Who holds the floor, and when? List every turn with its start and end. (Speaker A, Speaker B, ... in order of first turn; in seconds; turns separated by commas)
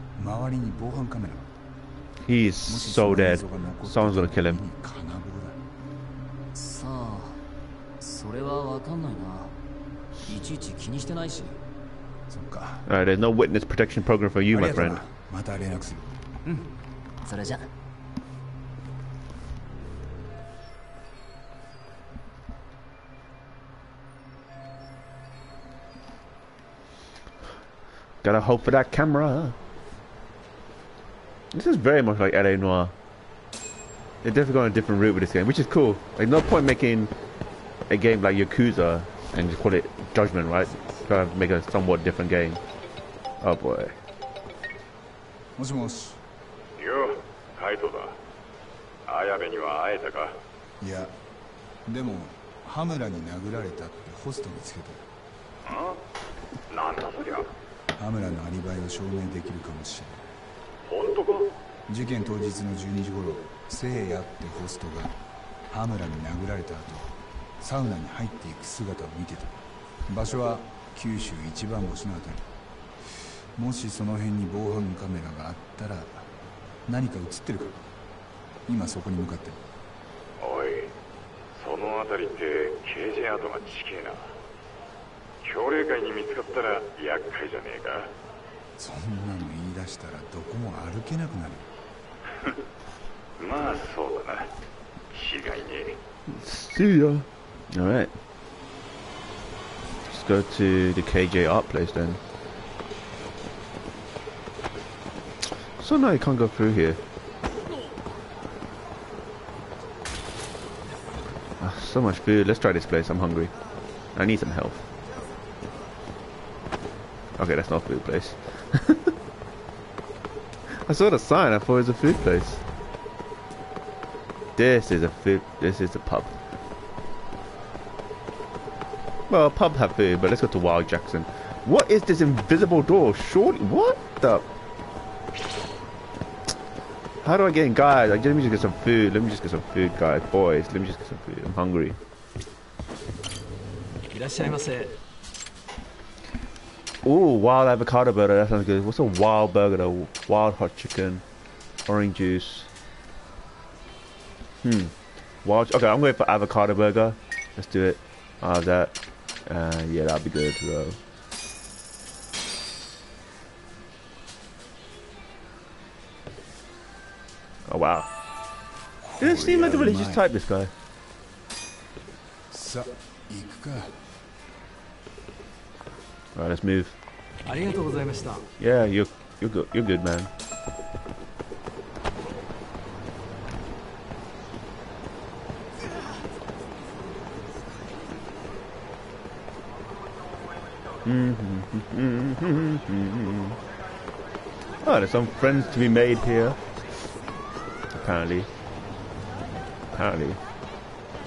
Speaker A: 0.1-1.6, Speaker B: 2.2-4.6, Speaker A: 2.7-5.6, Speaker C: 6.5-7.4, Speaker C: 8.0-9.6, Speaker C: 10.2-11.6, Speaker A: 12.3-12.9, Speaker B: 12.9-15.0, Speaker A: 14.5-16.7, Speaker C: 17.2-17.7, Speaker B: 28.2-29.6, Speaker B: 31.5-32.9, Speaker B: 34.2-37.1, Speaker B: 37.9-42.6, Speaker B: 43.4-44.0, Speaker A: 45.5-46.2, Speaker D: 46.8-48.1, Speaker D: 49.1-50.3, Speaker A: 50.8-51.1, Speaker A: 51.9-55.0, Speaker D: 56.7-57.4, Speaker A: 58.0-60.2, Speaker A: 61.9-65.2, Speaker A: 65.7-72.5, Speaker A: 73.5-76.3, Speaker A: 76.8-77.8, Speaker A: 78.7-79.6, Speaker D: 80.4-80.9, Speaker D: 81.5-84.3, Speaker D: 85.4-88.1, Speaker A: 88.8-91.7, Speaker D: 93.4-94.5, Speaker D: 95.1-96.0, Speaker B: 96.3-98.1, Speaker B: 100.1-102.2, Speaker B: 105.8-107.0, Speaker B: 111.6-113.5, Speaker B: 114.1-114.8, Speaker B: 117.4-119.1, Speaker B: 120.8-122.6, Speaker B: 124.5-126.3, Speaker B: 129.3-134.4, Speaker B: 137.2-142.0, Speaker C: 144.1-144.9, Speaker B: 147.0-151.2, Speaker B: 151.8-152.7, Speaker B: 154.6-154.9, Speaker B: 155.4-161.0, Speaker B: 167.7-168.1, Speaker A: 169.0-170.3, Speaker B: 169.2-170.7, Speaker A: 172.5-174.0, Speaker B: 176.3-176.9, Speaker C: 177.4-178.4, Speaker B: 178.6-180.3, Speaker B: 191.0-193.6, Speaker B: 194.8-196.6, Speaker B: 197.9-198.5, Speaker B: 199.9-200.4